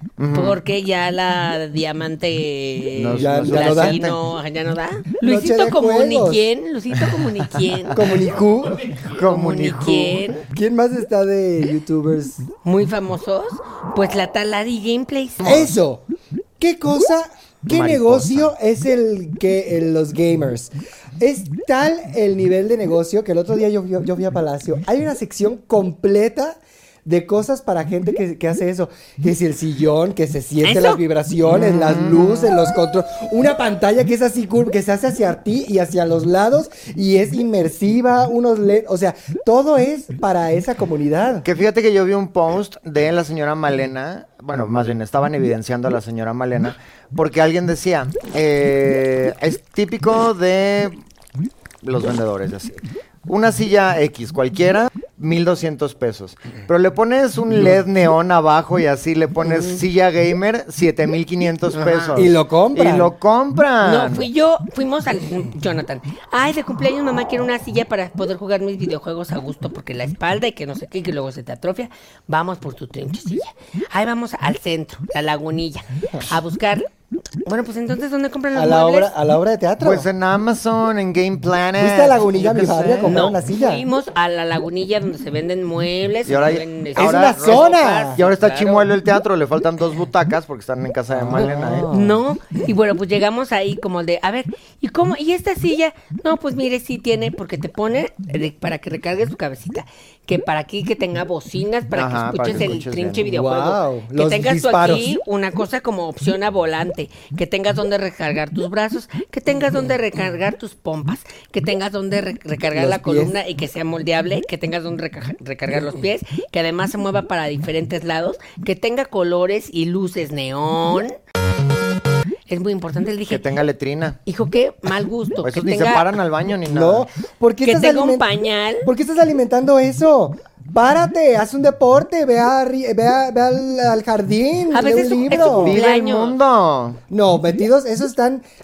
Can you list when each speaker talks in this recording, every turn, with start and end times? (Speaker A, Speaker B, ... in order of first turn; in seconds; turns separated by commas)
Speaker A: 0.2-0.6, Speaker B: 0.3-8.0, Speaker A: 3.0-4.2, Speaker C: 3.2-4.0, Speaker C: 5.2-6.5, Speaker A: 7.7-8.0, Speaker C: 7.9-9.0, Speaker A: 9.0-10.3, Speaker B: 9.1-10.4, Speaker C: 10.4-12.5, Speaker B: 12.6-15.7, Speaker C: 15.4-16.0, Speaker C: 16.6-41.5, Speaker A: 17.7-18.5, Speaker B: 30.6-31.0, Speaker A: 31.4-32.6, Speaker A: 41.4-51.0, Speaker C: 44.5-45.0, Speaker A: 51.8-64.3, Speaker B: 59.4-59.8, Speaker B: 61.7-62.2, Speaker C: 62.1-63.1, Speaker B: 63.8-76.9, Speaker B: 77.4-79.1, Speaker C: 78.5-80.1, Speaker A: 79.8-83.2, Speaker C: 81.8-83.8, Speaker B: 83.0-88.8, Speaker A: 86.2-91.9, Speaker C: 87.0-88.2, Speaker C: 91.1-92.2, Speaker B: 91.9-121.2, Speaker A: 101.9-103.3, Speaker C: 103.3-105.2, Speaker C: 112.7-113.4, Speaker B: 122.5-123.4, Speaker A: 123.3-124.2, Speaker B: 124.2-126.1, Speaker A: 125.4-127.1, Speaker C: 126.7-128.3, Speaker B: 127.6-128.9, Speaker C: 128.8-135.8, Speaker B: 134.7-136.3, Speaker A: 135.3-137.0, Speaker C: 137.1-138.5